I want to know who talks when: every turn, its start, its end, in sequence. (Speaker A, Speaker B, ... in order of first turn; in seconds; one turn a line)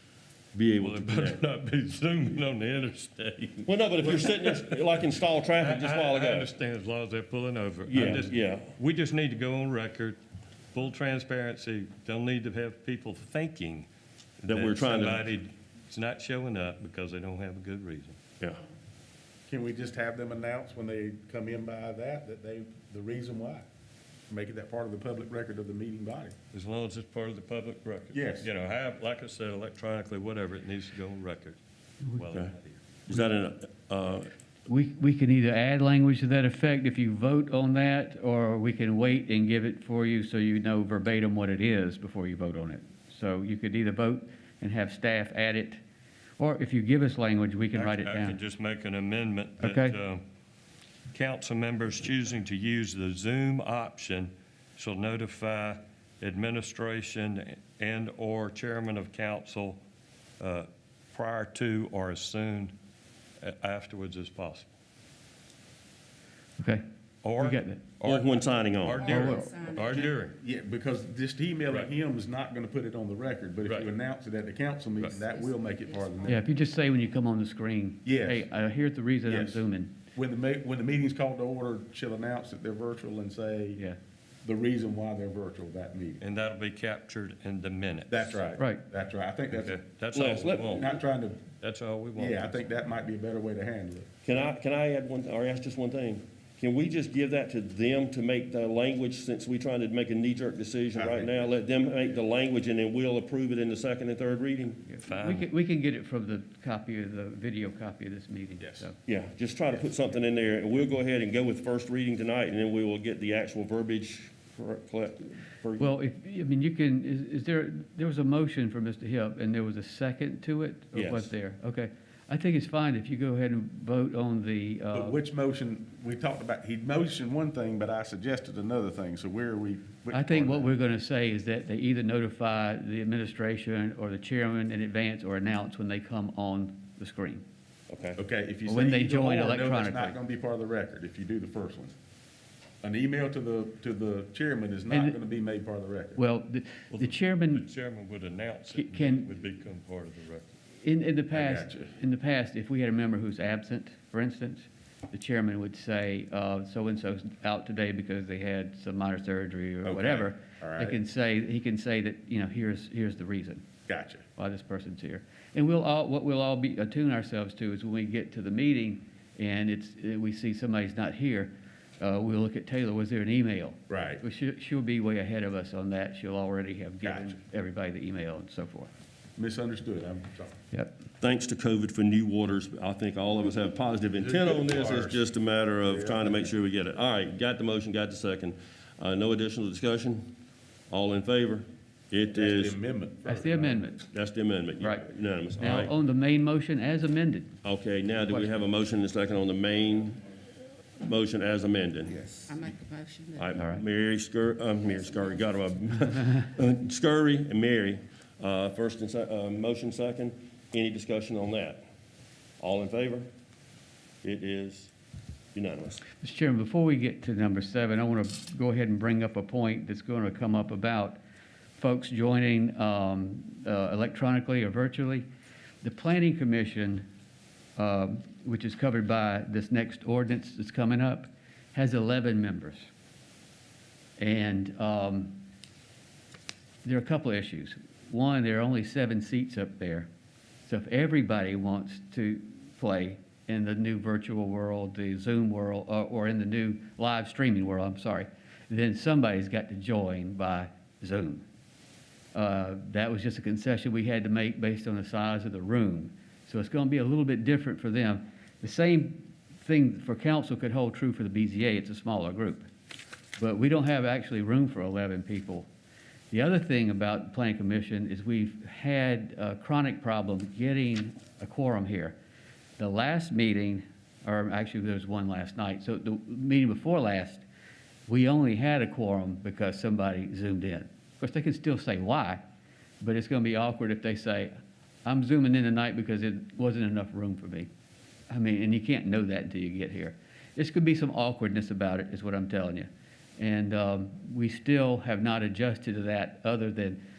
Speaker A: 0.5-1.4
Speaker B: 0.8-4.8
Speaker A: 3.6-6.5
Speaker B: 5.6-10.2
Speaker A: 7.9-8.7
Speaker B: 10.7-13.9
Speaker B: 14.4-18.2
Speaker A: 14.5-15.3
Speaker A: 18.4-18.6
Speaker C: 19.5-23.7
Speaker C: 24.3-26.3
Speaker B: 26.5-32.8
Speaker C: 28.1-28.5
Speaker A: 33.1-34.3
Speaker D: 34.7-45.8
Speaker D: 46.4-48.4
Speaker B: 47.7-50.2
Speaker D: 49.6-50.0
Speaker B: 51.1-59.8
Speaker B: 60.4-62.7
Speaker B: 63.4-64.7
Speaker D: 66.6-66.8
Speaker B: 67.2-70.4
Speaker D: 67.4-67.8
Speaker A: 68.0-69.2
Speaker E: 69.0-70.1
Speaker D: 69.0-69.6
Speaker C: 70.4-76.4
Speaker E: 75.2-76.7
Speaker D: 76.3-80.0
Speaker C: 78.0-78.5
Speaker C: 79.2-79.6
Speaker C: 80.1-83.8
Speaker C: 84.4-86.2
Speaker B: 86.2-88.4
Speaker C: 88.1-89.7
Speaker D: 88.6-88.8
Speaker B: 89.5-91.0
Speaker A: 90.1-90.9
Speaker C: 90.5-91.4
Speaker B: 91.6-92.5
Speaker C: 92.2-94.1
Speaker A: 94.2-104.8
Speaker C: 100.9-101.5
Speaker D: 104.9-109.0
Speaker B: 105.0-105.5
Speaker C: 108.6-108.9
Speaker A: 109.0-115.9
Speaker D: 115.8-125.2
Speaker A: 120.9-121.3
Speaker C: 124.9-130.7
Speaker D: 130.1-137.4
Speaker A: 137.9-138.2
Speaker C: 138.2-141.9
Speaker D: 138.7-140.2
Speaker C: 142.8-146.2
Speaker D: 144.9-145.2
Speaker D: 146.2-147.6
Speaker B: 146.9-150.5
Speaker D: 148.7-149.3
Speaker D: 150.8-163.7
Speaker C: 151.3-152.0
Speaker C: 159.8-161.0
Speaker C: 163.9-164.2
Speaker D: 164.3-178.9
Speaker C: 173.9-174.2
Speaker C: 177.0-177.4
Speaker C: 179.4-180.6
Speaker D: 180.7-181.0
Speaker A: 181.2-190.3
Speaker C: 184.1-185.3
Speaker C: 185.8-186.5
Speaker A: 190.9-192.8
Speaker C: 192.3-193.8
Speaker D: 193.2-194.0
Speaker A: 194.1-195.9
Speaker D: 194.8-197.6
Speaker A: 197.6-200.2
Speaker A: 201.0-202.3
Speaker E: 202.3-203.6
Speaker A: 203.3-211.8
Speaker A: 212.6-213.3
Speaker A: 214.2-214.9
Speaker A: 215.5-216.0
Speaker D: 216.2-221.2
Speaker D: 221.8-225.3
Speaker D: 225.8-227.0
Speaker D: 227.8-232.9
Speaker D: 234.2-235.4
Speaker D: 236.8-240.1
Speaker D: 240.7-251.4
Speaker D: 252.3-262.7
Speaker D: 263.4-265.7
Speaker D: 266.3-272.1
Speaker D: 272.8-277.4
Speaker D: 278.1-282.4
Speaker D: 283.0-284.5
Speaker D: 285.1-287.7
Speaker D: 288.3-297.0